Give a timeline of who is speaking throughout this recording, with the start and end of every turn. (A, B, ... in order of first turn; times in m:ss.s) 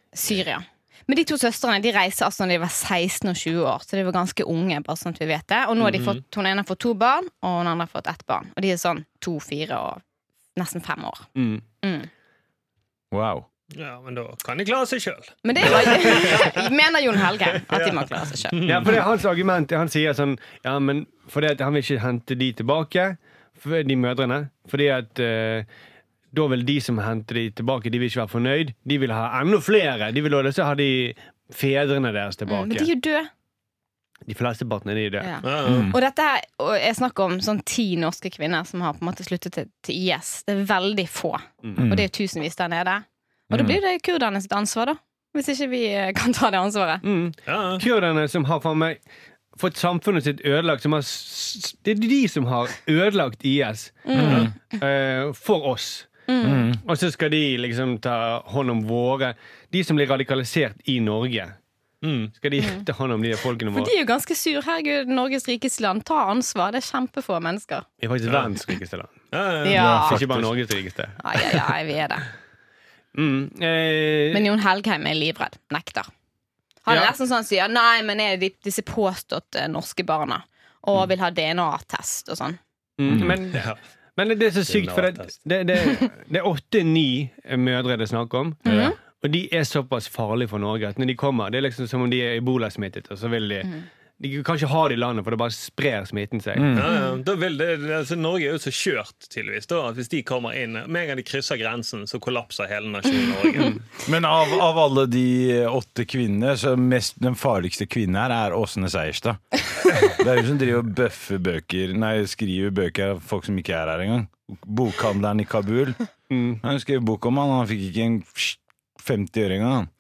0:00.1-0:10.0 A
0:05.8-0:06.2 B
0:10.6-0:11.3 A
0:11.4-0:11.6 C
0:11.8-0:12.1 A
0:13.1-0:13.5 D
0:13.7-0:16.6 B
0:15.4-0:18.9 A
0:17.6-0:19.0 B
0:18.6-0:25.7 C
0:26.3-0:32.9 C
0:32.5-0:33.3 A
0:34.3-0:35.3 C
0:35.2-0:47.0 A
0:35.4-0:35.9 B
0:35.6-0:36.0 D
0:41.8-0:42.1 D
0:43.5-0:43.8 D
0:47.0-0:49.0 C
0:47.5-0:47.8 B
0:49.6-0:54.1 C
0:54.1-0:54.6 A
0:54.1-0:54.5 D
0:54.2-0:54.5 B
0:54.8-0:56.1 C
0:56.3-0:56.7 A
0:56.4-0:56.8 D
0:56.8-1:01.6 C
1:02.0-1:02.3 B
1:02.4-1:03.9 C
1:02.6-1:02.8 A
1:03.7-1:07.9 A
1:08.0-1:09.1 C
1:09.3-1:10.4 B
1:09.6-1:10.2 A
1:09.7-1:10.2 D
1:09.9-1:11.6 C
1:11.2-1:12.2 A
1:13.1-1:14.5 C
1:14.3-1:16.1 A
1:16.9-1:22.6 A
1:23.0-1:28.6 C
1:23.1-1:23.4 D
1:23.5-1:23.8 B
1:24.7-1:25.4 B
1:28.6-1:29.0 D
1:28.6-1:29.0 A
1:29.2-1:36.7 C
1:36.6-1:37.0 D
1:36.7-1:43.8 B
1:44.0-1:56.0 D
1:56.3-1:56.6 C
1:56.6-1:59.9 D